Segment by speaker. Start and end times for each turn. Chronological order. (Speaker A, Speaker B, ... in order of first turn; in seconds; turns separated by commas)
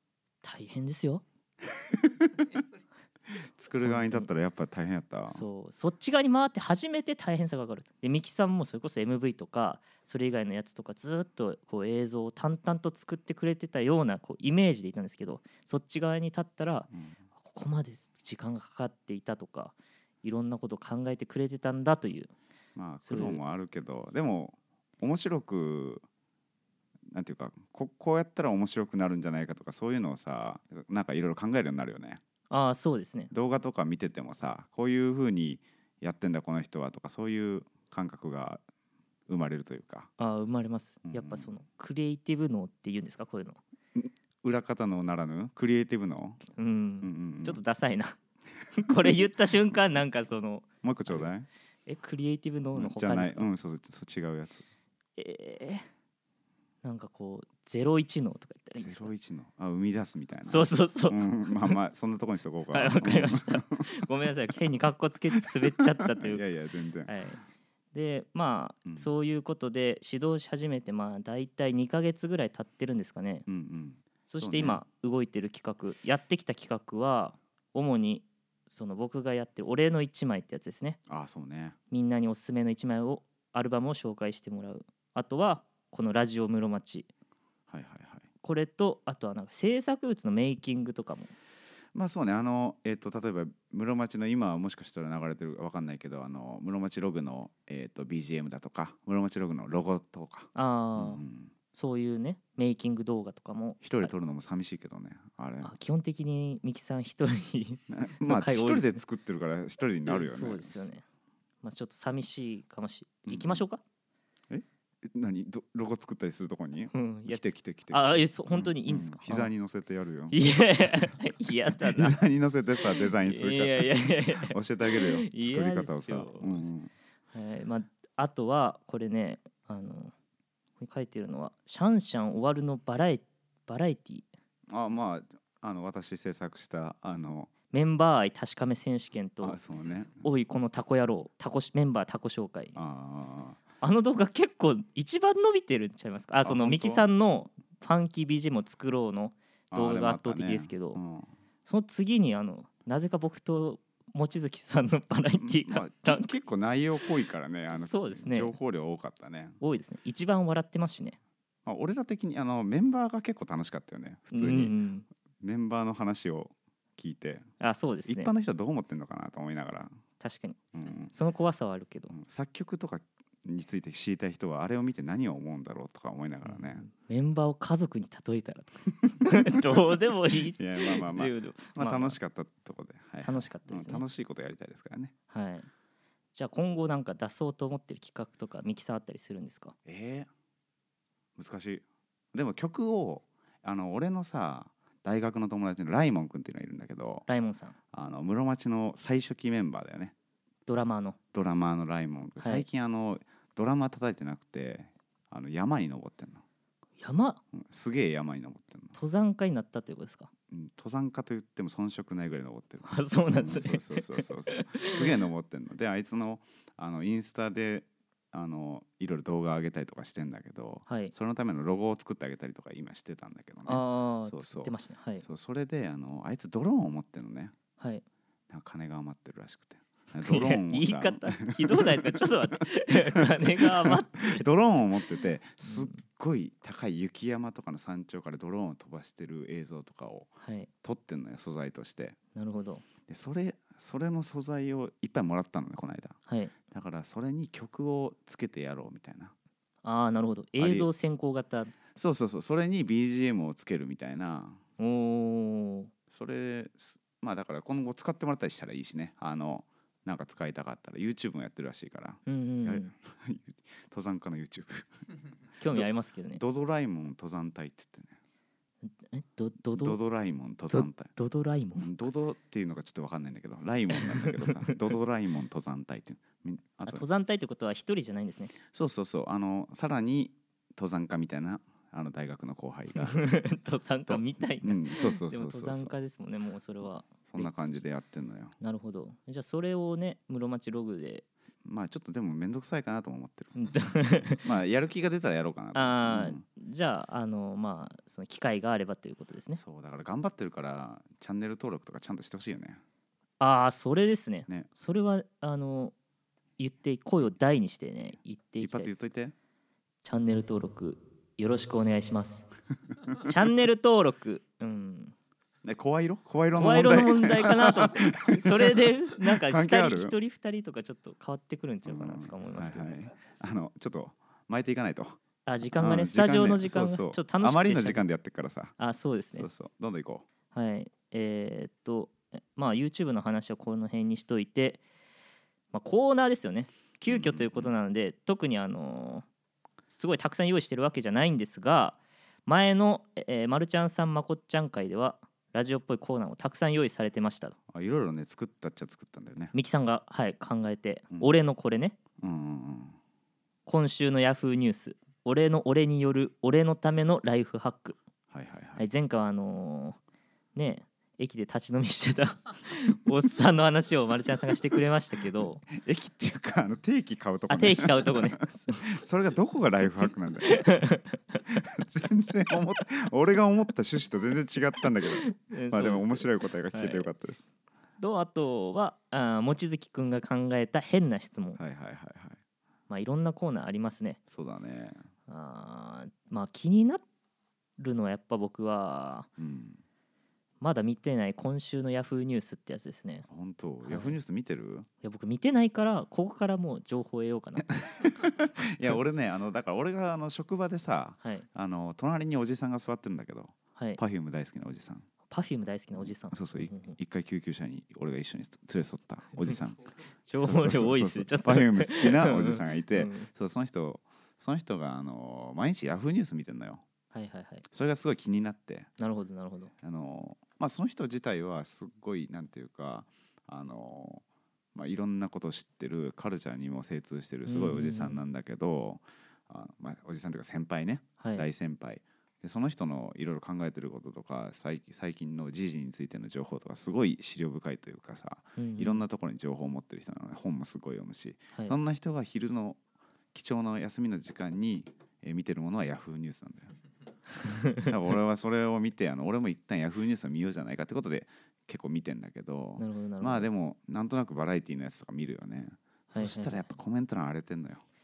Speaker A: 0.4-1.2, Speaker B: 1.8-2.3, Speaker B: 3.3-5.5, Speaker A: 3.8-4.3, Speaker A: 5.3-22.3, Speaker B: 16.9-17.2, Speaker B: 22.8-26.0, Speaker A: 23.0-23.4, Speaker B: 27.1-32.2, Speaker A: 32.5-33.3, Speaker B: 33.3-38.6, Speaker B: 39.3-40.1, Speaker A: 40.2-43.6, Speaker B: 41.0-41.5, Speaker B: 44.0-46.4, Speaker A: 46.5-48.2, Speaker B: 47.0-47.6, Speaker A: 48.7-51.3, Speaker B: 50.8-51.5, Speaker A: 51.9-53.5, Speaker B: 52.7-54.6, Speaker A: 55.2-55.9, Speaker A: 56.8-59.1, Speaker B: 58.8-63.8, Speaker A: 60.5-61.8, Speaker A: 62.7-66.4, Speaker B: 66.0-67.1, Speaker A: 67.1-67.4, Speaker A: 67.9-73.5, Speaker B: 73.5-74.8, Speaker A: 74.3-81.0, Speaker B: 81.1-81.8, Speaker A: 81.9-87.1, Speaker B: 87.7-88.3, Speaker A: 88.4-91.3, Speaker B: 91.9-101.5, Speaker A: 100.5-104.1, Speaker B: 103.8-105.7, Speaker A: 105.6-109.0, Speaker B: 107.9-110.9, Speaker A: 110.0-111.0, Speaker A: 111.6-113.8, Speaker B: 113.2-113.6, Speaker B: 114.5-120.4, Speaker A: 116.9-119.5, Speaker A: 120.3-122.2, Speaker B: 121.8-126.9, Speaker A: 122.9-126.7, Speaker A: 127.3-130.1, Speaker A: 130.8-134.3, Speaker B: 134.7-137.5, Speaker A: 137.7-139.6, Speaker B: 139.4-140.2, Speaker A: 140.2-142.8, Speaker B: 142.7-143.6, Speaker A: 143.8-151.0, Speaker B: 146.4-147.1, Speaker B: 149.7-151.3, Speaker A: 151.7-156.3, Speaker B: 155.4-159.6, Speaker A: 157.7-158.5, Speaker A: 159.6-161.2, Speaker B: 161.7-164.7, Speaker A: 164.3-165.1, Speaker B: 165.4-167.4, Speaker A: 167.6-168.3, Speaker B: 168.0-169.9, Speaker A: 170.2-170.6, Speaker B: 170.7-171.1, Speaker A: 171.1-172.1, Speaker B: 172.1-176.8, Speaker A: 176.4-182.2, Speaker B: 179.2-179.5, Speaker B: 180.5-185.1, Speaker A: 183.2-184.0, Speaker A: 185.3-185.7, Speaker A: 186.3-189.7, Speaker B: 189.8-190.3, Speaker B: 191.3-197.3, Speaker A: 197.3-197.7, Speaker B: 197.9-200.1, Speaker A: 200.7-201.2, Speaker B: 201.3-206.4, Speaker A: 202.4-202.7, Speaker A: 207.0-207.4, Speaker B: 207.5-208.9, Speaker A: 208.9-210.3, Speaker B: 210.5-227.5, Speaker A: 212.8-215.1, Speaker A: 220.9-221.1, Speaker A: 223.7-225.2, Speaker A: 227.8-228.0, Speaker B: 228.5-232.6, Speaker A: 230.2-234.4, Speaker B: 233.1-240.3, Speaker A: 235.6-236.0, Speaker A: 240.4-240.7, Speaker B: 240.8-242.2, Speaker A: 242.3-242.8, Speaker B: 243.1-246.2, Speaker A: 246.3-246.5, Speaker B: 246.7-249.3, Speaker A: 249.8-251.7, Speaker B: 250.6-250.9, Speaker B: 251.9-254.6, Speaker A: 254.8-255.9, Speaker B: 256.1-265.0, Speaker A: 262.2-262.9, Speaker A: 265.6-266.4, Speaker B: 265.7-268.2, Speaker A: 268.8-270.0, Speaker B: 269.7-271.1, Speaker A: 270.7-271.9, Speaker B: 271.8-277.1, Speaker A: 273.9-274.7, Speaker A: 276.8-278.5, Speaker B: 278.6-283.2, Speaker A: 283.0-287.5, Speaker B: 284.1-285.9, Speaker B: 287.3-288.6, Speaker A: 288.6-291.2, Speaker B: 291.6-293.5, Speaker A: 293.6-294.4, Speaker B: 294.4-296.4, Speaker A: 295.7-299.6, Speaker B: 299.5-302.8, Speaker A: 303.4-305.9, Speaker A: 306.6-308.9, Speaker B: 308.6-309.3, Speaker A: 310.0-312.4, Speaker A: 313.2-315.1, Speaker B: 315.6-320.1, Speaker A: 316.5-322.9, Speaker B: 321.8-325.2, Speaker A: 325.4-328.0, Speaker B: 325.8-328.7, Speaker A: 328.8-329.5, Speaker B: 329.3-330.3, Speaker A: 330.5-334.8, Speaker A: 335.7-339.2, Speaker B: 337.1-337.7, Speaker A: 339.9-347.6, Speaker B: 347.7-349.5, Speaker A: 349.5-352.0, Speaker B: 352.2-352.9, Speaker A: 353.6-358.0, Speaker B: 358.3-358.8, Speaker A: 358.8-360.0, Speaker A: 360.5-365.6, Speaker B: 365.7-370.8, Speaker A: 367.5-368.9, Speaker A: 369.8-371.6, Speaker B: 371.6-377.4, Speaker A: 375.0-377.1, Speaker A: 378.0-381.6, Speaker B: 381.6-382.4, Speaker A: 382.9-384.2, Speaker B: 384.3-385.0, Speaker A: 385.3-387.0, Speaker A: 387.8-389.3, Speaker B: 389.4-389.8, Speaker A: 390.6-393.2, Speaker B: 393.3-394.9, Speaker A: 393.8-394.1, Speaker A: 395.0-397.8, Speaker B: 397.9-405.1, Speaker A: 405.3-407.0, Speaker B: 405.9-409.8, Speaker A: 410.2-413.3, Speaker B: 410.4-416.8, Speaker A: 417.1-417.6, Speaker B: 417.7-418.9, Speaker A: 419.0-419.7, Speaker B: 419.8-424.2, Speaker B: 424.7-442.8, Speaker A: 427.5-428.2, Speaker A: 431.2-431.4, Speaker A: 438.6-439.0, Speaker B: 443.3-446.7, Speaker A: 447.4-447.9, Speaker B: 447.9-457.8, Speaker A: 452.8-453.5, Speaker A: 456.1-456.8